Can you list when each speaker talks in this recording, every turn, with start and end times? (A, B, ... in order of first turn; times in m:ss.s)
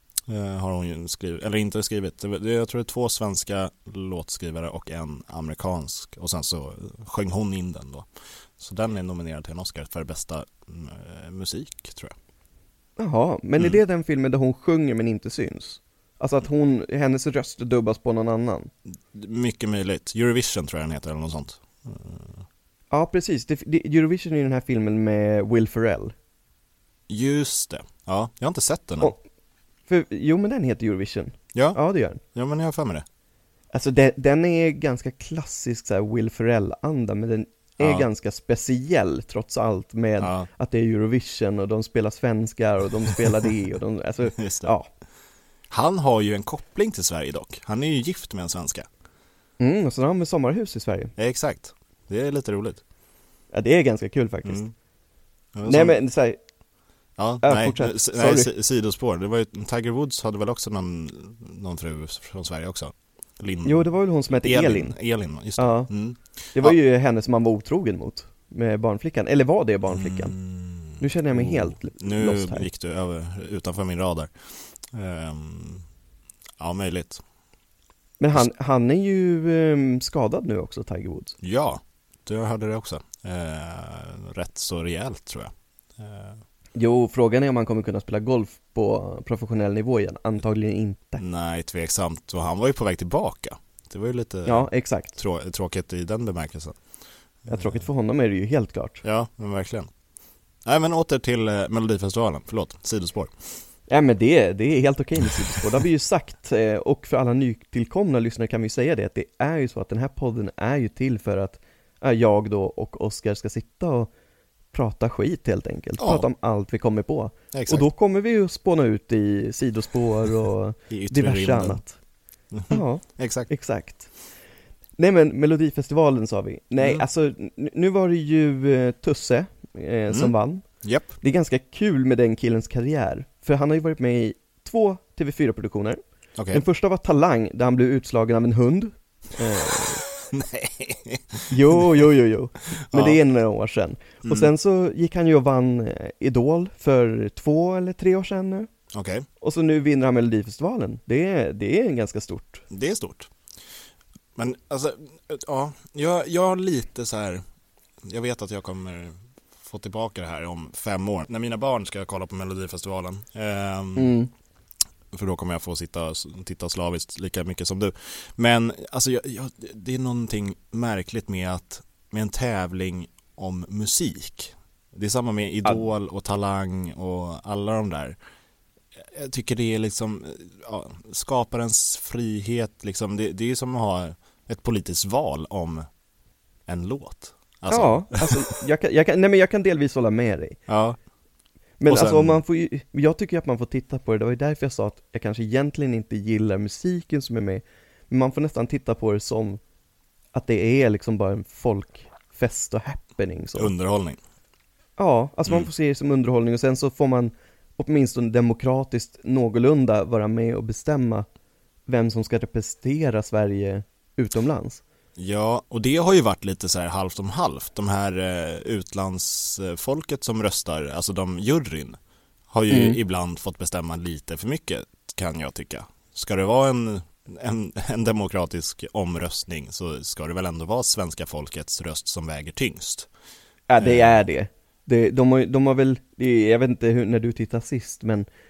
0:00.3-0:08.0 A
0:08.6-0:12.1 A
0:13.0-0:18.7 B
0:19.1-0:22.4 A
0:22.9-0:26.1 B
0:27.1-0:29.1 A
0:29.9-0:32.2 B
0:32.3-0:33.0 A
0:33.7-0:44.9 B
0:37.8-0:38.0 A
0:40.2-0:40.5 A
0:44.4-0:44.7 A
0:45.7-0:48.9 A
0:49.6-0:51.1 B
0:51.2-0:52.8 A
0:53.5-0:54.6 B
0:54.4-0:54.7 A
0:55.5-0:56.0 A
0:55.6-0:56.4 B
0:57.2-1:03.8 A
0:57.4-0:58.5 B
1:03.6-1:05.0 B
1:04.4-1:06.7 A
1:05.6-1:05.9 B
1:06.5-1:10.3 B
1:09.9-1:14.3 A
1:11.0-1:12.7 B
1:14.9-1:15.8 A
1:16.6-1:17.2 A
1:18.2-1:21.4 B
1:21.4-1:26.4 A
1:26.8-1:31.2 B
1:31.2-1:36.8 A
1:34.4-1:35.2 B
1:37.5-1:39.0 B
1:39.0-1:39.9 A
1:40.6-1:43.3 A
1:43.9-1:54.1 B
1:54.7-2:01.9 B
1:56.0-1:56.2 A
1:57.5-1:57.9 A
2:00.9-2:01.8 A
2:02.5-2:03.5 A
2:02.7-2:04.1 B
2:05.0-2:10.6 B
2:06.8-2:07.0 A
2:10.1-2:11.1 A
2:11.2-2:16.0 B
2:16.4-2:16.6 A
2:16.5-2:20.0 B
2:19.7-2:22.1 A
2:21.5-2:28.7 B
2:22.9-2:23.2 A
2:24.2-2:24.5 A
2:28.9-2:29.2 A
2:29.4-2:32.6 B
2:32.7-2:33.3 A
2:34.4-2:37.4 A
2:38.0-2:44.1 A
2:44.0-2:44.3 B
2:45.1-2:58.2 A
2:59.0-3:05.8 A
3:06.7-3:08.4 A
3:07.7-3:10.6 B
3:10.7-3:11.0 A
3:11.8-3:19.6 B
3:11.9-3:12.4 A
3:20.3-3:23.7 B
3:23.6-3:24.2 A
3:25.0-3:31.2 B
3:31.9-3:34.8 B
3:35.2-3:42.0 A
3:42.5-3:53.1 A
3:42.7-3:43.0 B
3:53.7-3:58.3 B
3:53.8-3:54.2 A